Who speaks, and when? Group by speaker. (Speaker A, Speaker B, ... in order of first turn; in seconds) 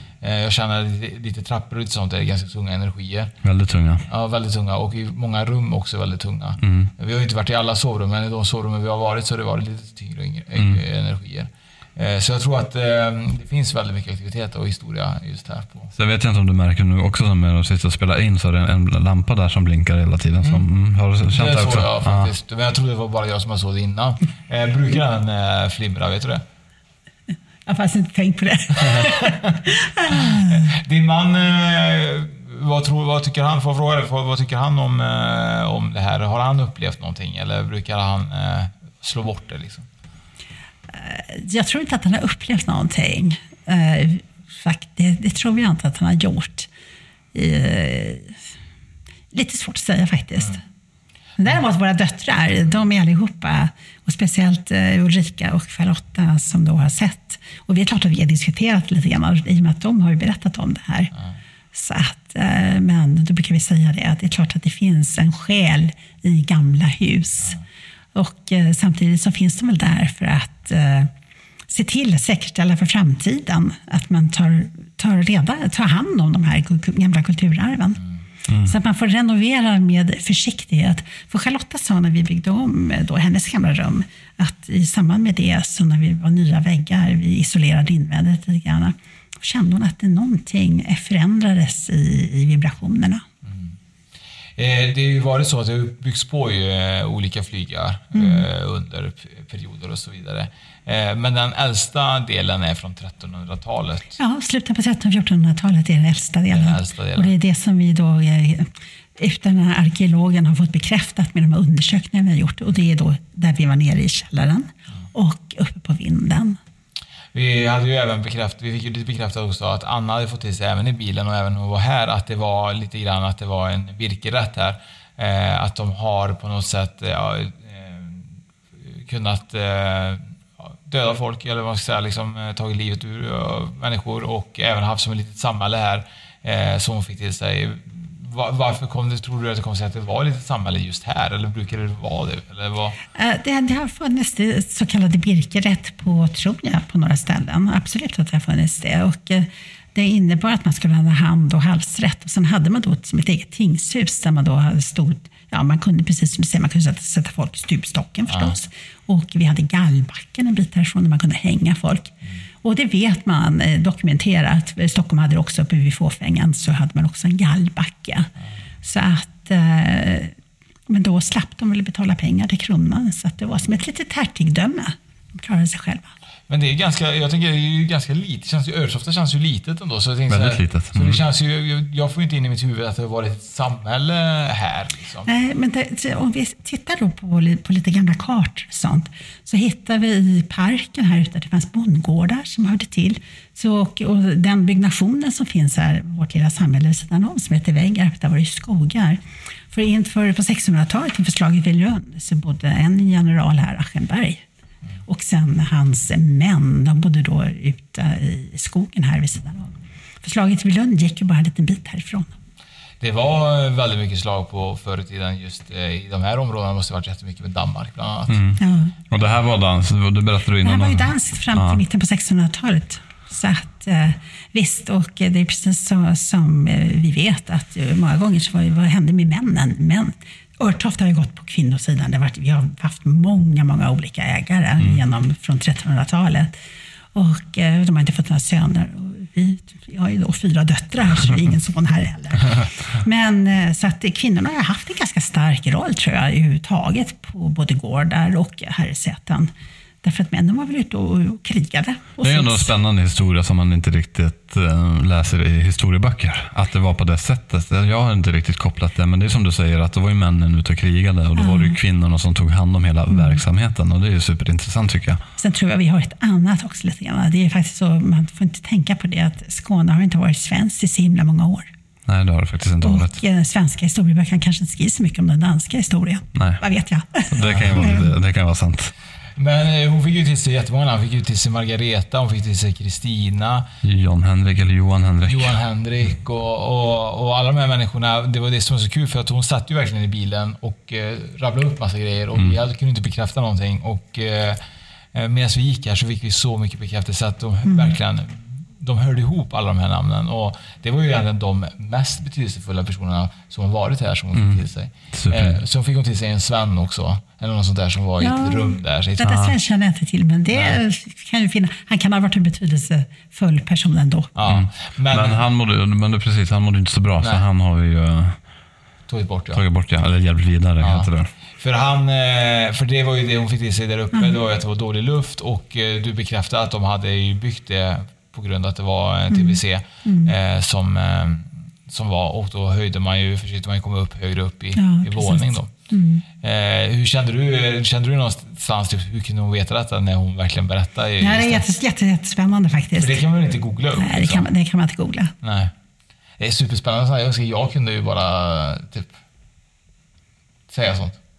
Speaker A: 0.2-3.3, 4.1-15.9, 21.3-26.4, 30.5-39.9, 93.5-93.7, 94.6-104.2, 106.5-107.3, 117.3-128.3, 128.9-143.0, 158.3-158.5, 176.5-185.3, 213.0-218.4, 277.4-277.8, 279.4-283.7, 285.3-294.6, 295.1-309.3, 310.5-310.8, 314.4-315.4, 319.1-319.6, 320.8-335.7, 336.4-341.6, 343.0-344.5, 345.4-345.7, 346.4-349.1, 350.7-351.2
Speaker B: 3.4-4.0, 6.6-6.9, 10.6-10.8, 15.9-22.3, 78.5-78.7, 180.3-181.2, 218.3-218.6, 219.1-221.8, 252.2-265.2, 272.1-273.2, 276.4-276.6, 277.3-278.9, 283.8-285.6, 292.4-292.6, 304.3-305.6, 309.2-309.5, 314.5-318.4, 319.5-321.3
Speaker C: 27.7-30.6, 40.9-46.7, 47.3-48.4, 49.3-50.6, 51.4-61.1, 61.7-67.6, 68.2-71.1, 71.7-78.0, 78.7-93.2, 98.1-98.5, 104.2-116.6, 143.2-162.1, 162.6-168.3, 168.8-170.3, 170.9-176.1, 185.3-204.4, 205.1-212.3, 218.6-218.9, 220.6-236.6, 237.1-249.5, 250.0-252.7, 261.4-261.8, 263.1-263.4, 265.4-271.7, 272.8-278.1, 297.6-297.9, 308.2-314.3, 329.3-330.3, 334.8-336.2, 341.2-343.2, 344.0-345.3